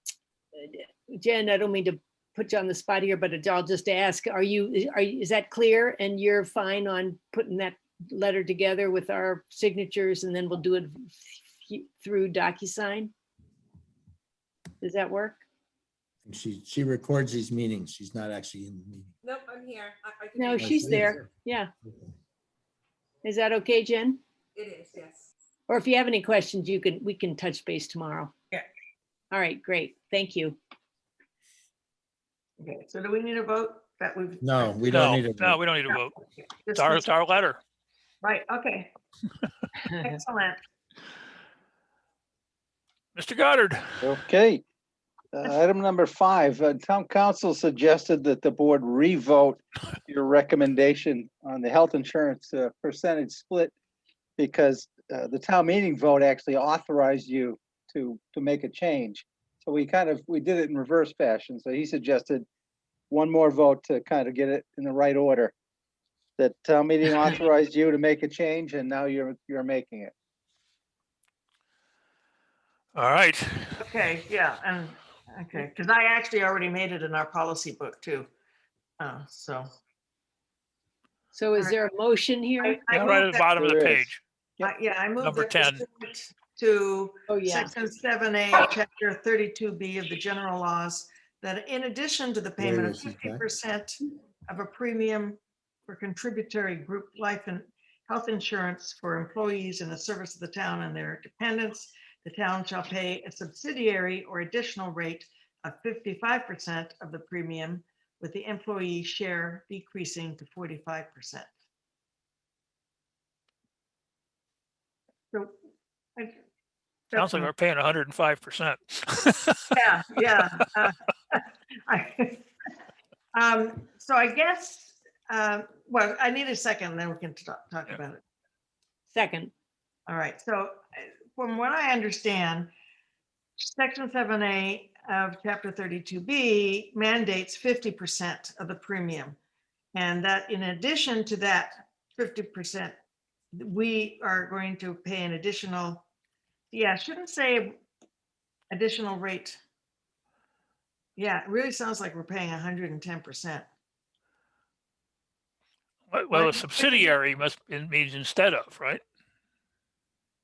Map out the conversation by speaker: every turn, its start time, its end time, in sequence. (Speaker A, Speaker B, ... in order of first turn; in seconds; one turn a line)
Speaker A: 0.6-13.1
Speaker A: 14.8-15.4
Speaker B: 16.3-19.1
Speaker C: 19.2-21.2
Speaker A: 20.4-21.7
Speaker B: 20.6-21.2
Speaker A: 23.2-24.2
Speaker C: 24.6-25.3
Speaker A: 25.7-28.3
Speaker A: 29.3-30.6
Speaker D: 32.6-35.0
Speaker B: 34.4-35.6
Speaker E: 34.9-36.2
Speaker D: 36.3-37.1
Speaker E: 36.7-37.6
Speaker D: 38.2-38.9
Speaker D: 40.0-40.6
Speaker E: 43.1-43.9
Speaker F: 44.0-44.6
Speaker F: 45.3-53.7
Speaker F: 54.4-62.5
Speaker F: 63.1-65.5
Speaker F: 66.4-70.1
Speaker E: 73.0-73.8
Speaker D: 73.8-78.3
Speaker D: 79.0-79.7
Speaker A: 81.3-82.8
Speaker D: 82.6-83.5
Speaker E: 82.9-84.2
Speaker F: 83.6-84.1
Speaker D: 84.6-111.5
Speaker E: 85.2-85.8
Speaker A: 87.3-87.7
Speaker B: 92.6-93.4
Speaker D: 117.1-117.5
Speaker E: 117.1-119.7
Speaker D: 119.7-122.5
Speaker D: 123.3-128.2
Speaker A: 129.1-129.5
Speaker D: 130.1-132.7
Speaker D: 133.6-139.4
Speaker D: 139.9-142.9
Speaker D: 143.5-146.1
Speaker D: 146.7-147.8
Speaker D: 148.7-149.6
Speaker D: 151.2-153.7
Speaker E: 156.1-159.0
Speaker D: 156.3-157.2